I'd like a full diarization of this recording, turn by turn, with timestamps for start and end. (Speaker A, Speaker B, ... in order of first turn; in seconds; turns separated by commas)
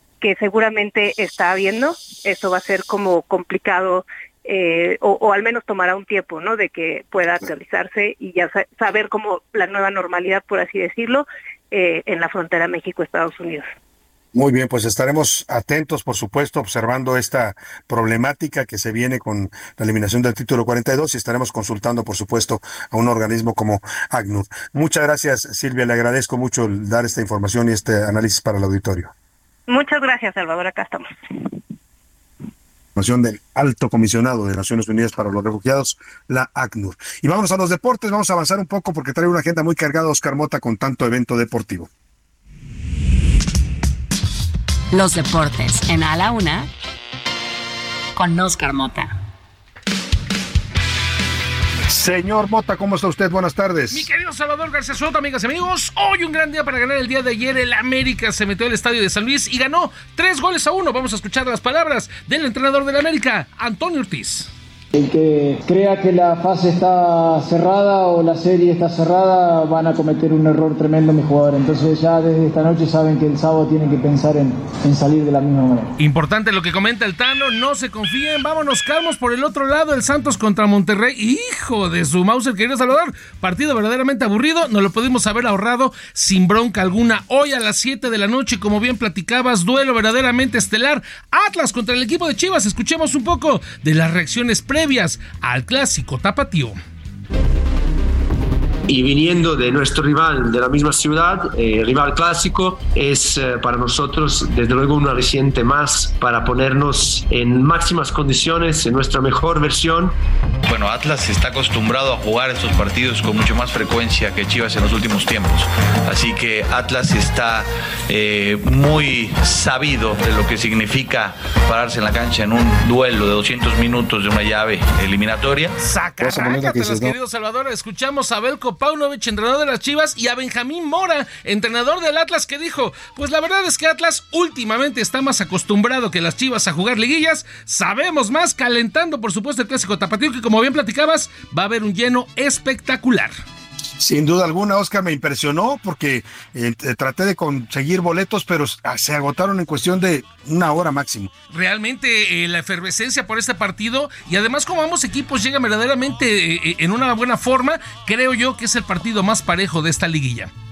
Speaker A: 0.2-13.6, Speaker B: 14.3-29.1, Speaker A: 29.7-31.5, Speaker B: 33.0-41.9, Speaker C: 44.9-46.7, Speaker C: 48.1-49.1, Speaker B: 51.9-54.1, Speaker D: 53.9-64.5, Speaker E: 64.9-75.9, Speaker D: 76.0-96.8, Speaker F: 98.9-110.1, Speaker G: 110.7-125.8, Speaker D: 125.8-143.3, Speaker B: 126.2-127.2, Speaker B: 144.0-151.3, Speaker D: 151.5-160.5